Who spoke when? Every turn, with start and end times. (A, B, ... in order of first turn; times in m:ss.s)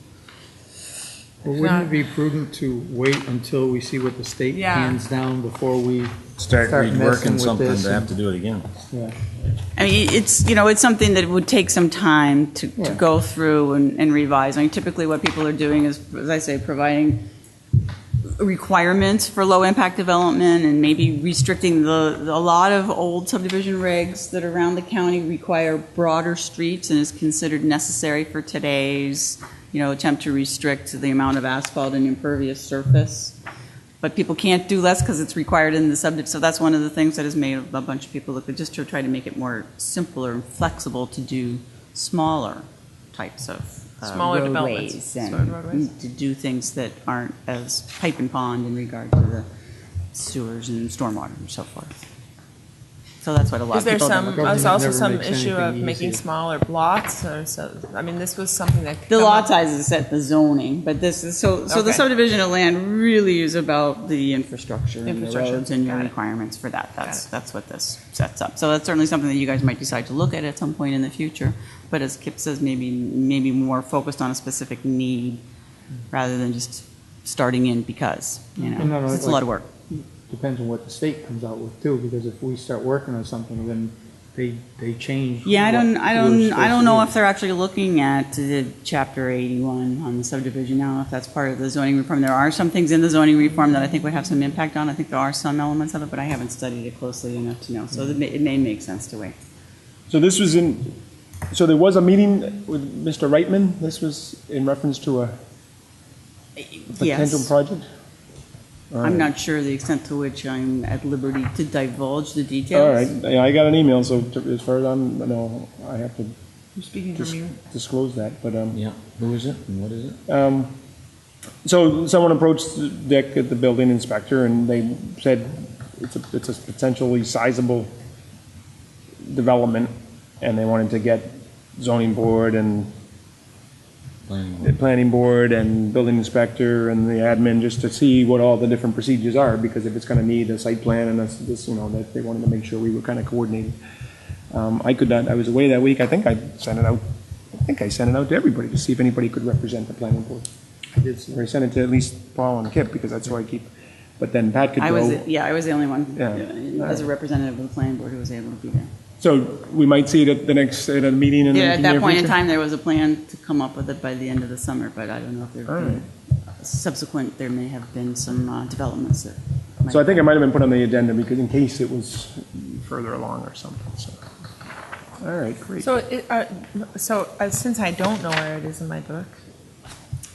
0:01.4-0:08.1 A
0:01.6-0:02.0 B
0:04.5-0:05.0 B
0:06.4-0:08.7 C
0:08.9-0:09.2 A
0:09.8-0:17.2 D
0:18.3-0:33.4 D
0:34.0-0:49.5 D
0:44.0-0:45.9 B
0:50.1-0:52.0 D
0:53.2-0:54.7 D
0:53.7-0:59.6 B
0:54.0-0:56.2 A
0:59.1-1:15.4 D
1:01.7-1:02.1 B
1:05.0-1:06.1 B
1:16.1-1:19.7 D
1:18.8-1:27.1 A
1:25.4-1:39.4 D
1:40.1-1:41.0 E
1:41.5-1:45.3 E
1:46.6-1:47.5 D
1:46.9-1:47.9 E
1:48.9-1:49.3 E
1:49.0-1:53.1 D
1:52.7-1:56.3 E
1:56.8-1:57.6 B
1:57.2-1:58.8 E
1:58.7-2:00.2 C
2:00.3-2:00.7 E
2:01.6-2:07.9 E
2:09.2-2:12.9 E
2:14.3-2:14.7 C
2:14.6-2:23.8 E
2:24.5-2:27.0 E
2:27.5-2:30.5 E
2:31.0-2:31.4 A
2:31.3-2:35.3 E
2:34.8-2:38.9 D
2:36.2-2:37.1 E
2:39.2-2:42.4 E
2:41.5-2:50.2 D
2:45.7-2:46.0 E
2:49.9-2:54.2 E
2:55.2-2:55.9 E
2:55.8-2:59.4 B